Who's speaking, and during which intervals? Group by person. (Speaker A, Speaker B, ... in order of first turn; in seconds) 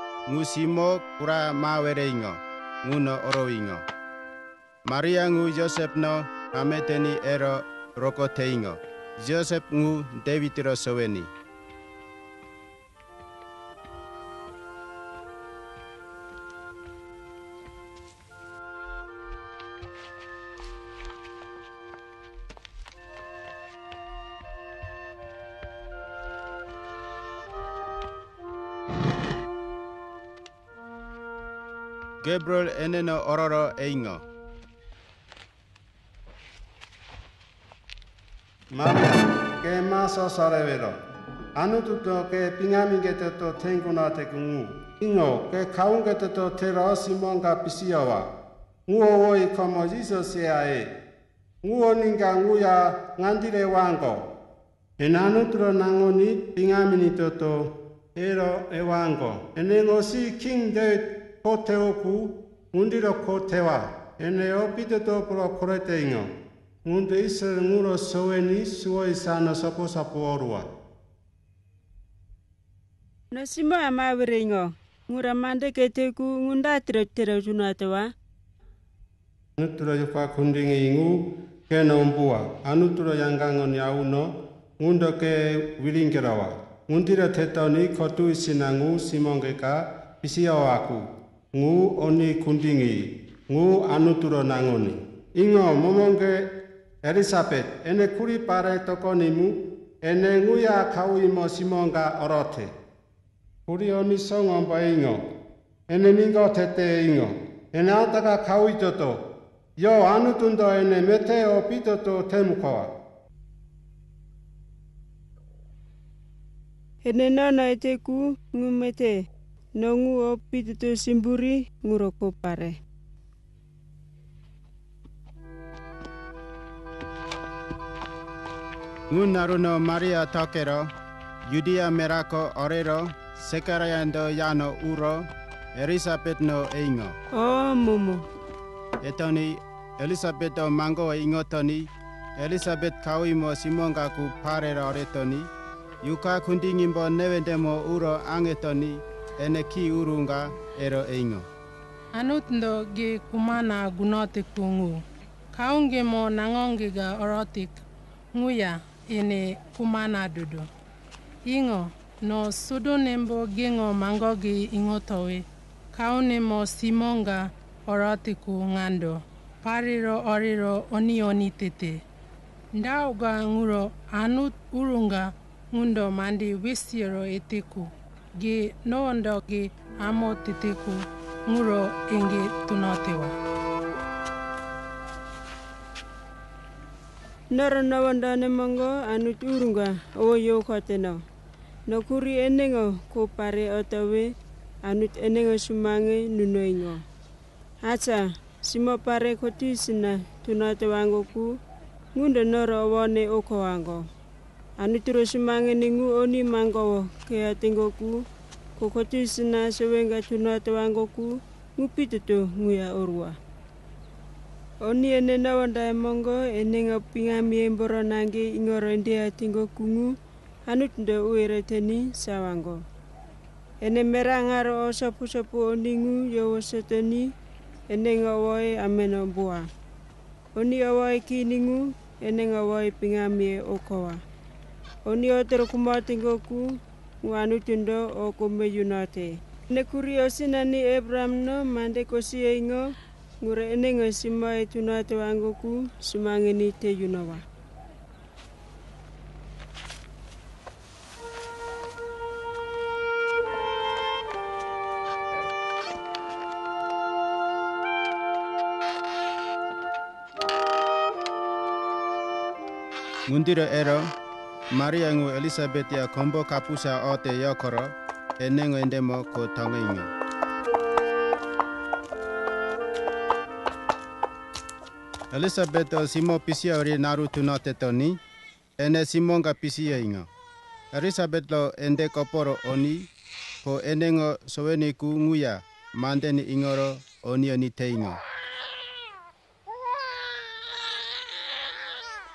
Speaker A: 0.3-3.8, 4.9-11.3, 32.2-34.2, 129.1-130.9, 131.5-137.2, 139.0-145.5, 146.0-151.5, 263.3-264.1, 264.7-270.1, 275.3-278.2, 278.8-280.3, 280.9-283.1, 283.6-288.2
Speaker B: 38.7-41.0, 41.5-48.3, 48.9-50.9, 51.6-54.3, 55.0-66.3, 66.8-70.7, 79.6-96.5, 97.0-102.7, 103.7-105.2, 105.9-109.2, 109.8-112.9
Speaker C: 73.3-78.1, 117.0-119.2, 119.8-122.8, 137.3-138.2, 187.5-191.2, 191.9-194.3, 194.8-197.0, 197.8-201.5, 202.2-204.1, 204.8-208.2, 208.8-213.4, 214.8-220.1, 220.7-222.8, 223.8-227.3, 227.9-229.7, 230.5-234.2, 235.1-236.7, 237.2-242.9, 243.4-247.4
Speaker D: 152.2-155.0, 155.5-157.8, 158.3-160.7, 161.5-172.0, 172.8-177.9, 178.4-183.3